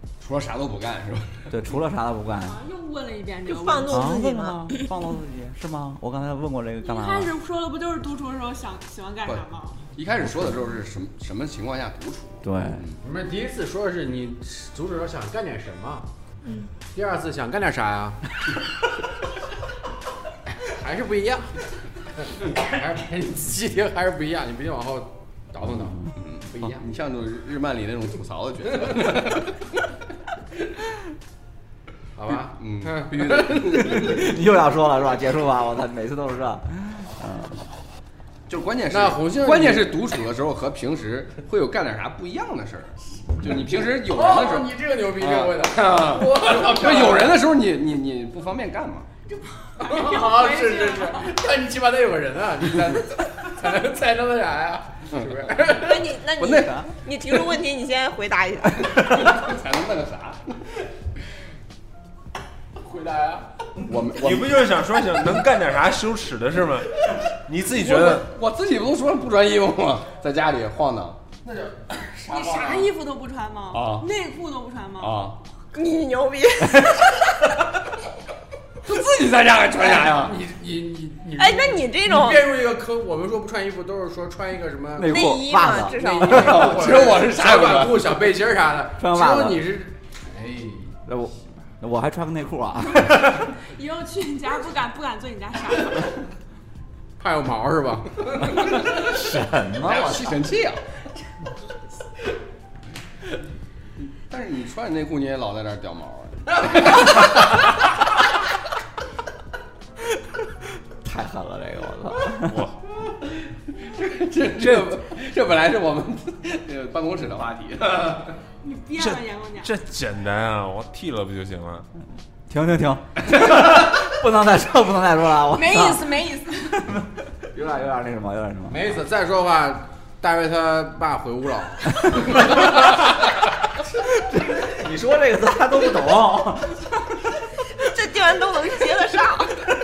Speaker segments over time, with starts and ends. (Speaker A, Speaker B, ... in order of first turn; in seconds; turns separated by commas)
Speaker A: 0.2-1.5, Speaker B: 1.5-2.6, Speaker C: 2.4-4.1, Speaker D: 3.5-4.7, Speaker B: 3.9-7.3, Speaker C: 6.8-9.9, Speaker A: 9.2-13.0, Speaker B: 12.4-12.8, Speaker E: 13.0-16.1, Speaker E: 16.9-18.2, Speaker E: 20.6-21.6, Speaker E: 22.2-26.0, Speaker A: 26.1-29.6, Speaker E: 32.1-33.9, Speaker A: 32.6-34.1, Speaker B: 33.8-37.6, Speaker A: 38.5-49.1, Speaker E: 38.9-40.0, Speaker E: 44.0-47.4, Speaker C: 49.3-51.4, Speaker E: 49.8-56.1, Speaker A: 55.1-55.7, Speaker D: 55.6-59.1, Speaker A: 56.4-56.9, Speaker A: 58.9-60.6, Speaker E: 62.8-64.2, Speaker A: 63.9-64.7, Speaker F: 64.1-68.3, Speaker A: 67.8-71.2, Speaker E: 71.4-72.8, Speaker C: 72.2-75.2, Speaker A: 73.7-74.1, Speaker A: 75.0-75.4, Speaker D: 75.7-77.5, Speaker A: 78.8-80.4, Speaker E: 79.8-90.9, Speaker D: 81.3-82.5, Speaker B: 85.0-86.0, Speaker D: 85.0-87.0, Speaker A: 86.2-88.3, Speaker B: 89.0-89.7, Speaker B: 91.1-93.5, Speaker C: 93.4-96.2, Speaker E: 97.2-98.2, Speaker A: 98.4-99.1, Speaker B: 98.7-100.4, Speaker A: 99.8-100.8, Speaker A: 104.3-107.6, Speaker B: 111.0-112.7, Speaker F: 112.3-112.8, Speaker A: 113.8-118.4, Speaker C: 118.6-119.7, Speaker F: 119.0-121.9, Speaker B: 122.5-126.1, Speaker C: 125.5-126.9, Speaker B: 126.7-128.9, Speaker E: 128.7-132.6, Speaker B: 132.1-132.6, Speaker B: 134.0-136.9, Speaker D: 137.8-139.7